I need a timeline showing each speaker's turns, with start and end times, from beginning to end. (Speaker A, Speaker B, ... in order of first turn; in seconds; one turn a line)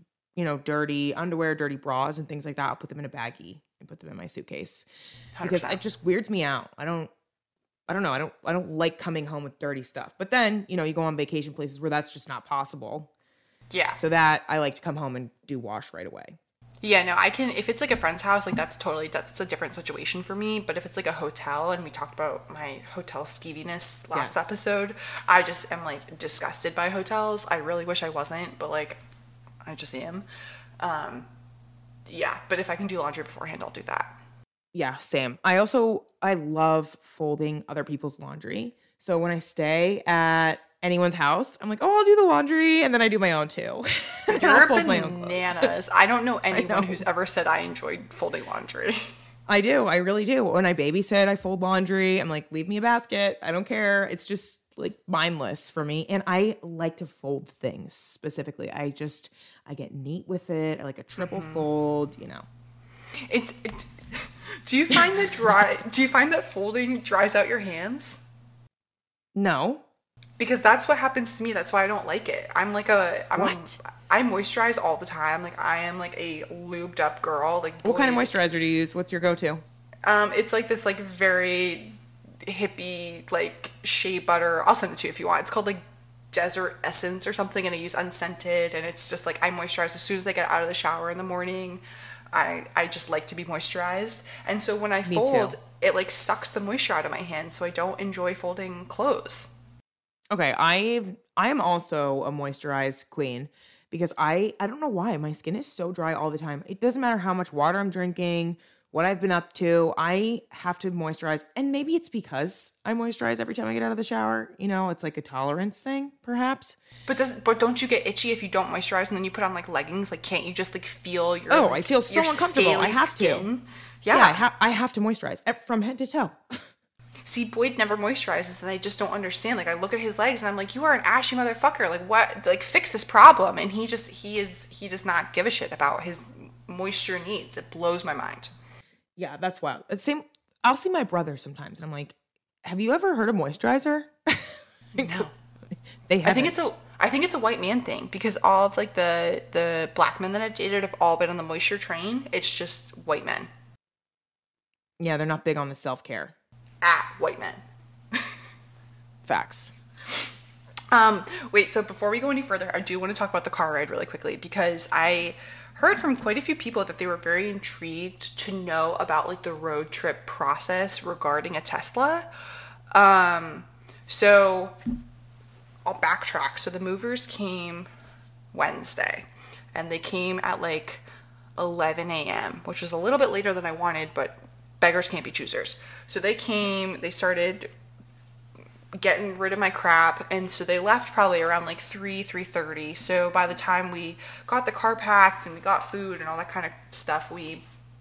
Speaker A: 0.3-4.9
Speaker B: 5.4-5.8
Speaker A: 5.4-7.1
Speaker A: 7.9-13.1
Speaker B: 13.7-14.0
Speaker A: 14.0-16.4
Speaker B: 16.8-29.0
Speaker A: 24.1-24.5
Speaker B: 29.6-30.2
Speaker B: 30.8-31.3
Speaker B: 32.1-34.1
Speaker A: 34.7-45.7
Speaker B: 44.3-49.0
Speaker A: 46.5-47.0
Speaker A: 49.5-62.5
Speaker B: 61.2-61.7
Speaker B: 63.3-68.2
Speaker A: 69.3-69.8
Speaker B: 70.4-78.3
Speaker A: 73.4-73.6
Speaker A: 77.8-79.6
Speaker B: 80.0-99.5
Speaker A: 95.0-95.5
Speaker A: 100.3-116.8
Speaker B: 117.1-124.4
Speaker A: 121.5-123.5
Speaker A: 124.1-126.6
Speaker B: 127.2-138.5
Speaker A: 139.2-145.2
Speaker B: 144.9-145.3
Speaker A: 146.1-146.7
Speaker B: 146.2-153.5
Speaker A: 155.0-156.3
Speaker B: 156.8-157.6
Speaker A: 159.2-159.7
Speaker B: 160.9-172.3
Speaker B: 172.9-174.8
Speaker B: 175.9-177.9
Speaker B: 178.5-181.0
Speaker B: 181.6-187.7
Speaker B: 188.9-197.6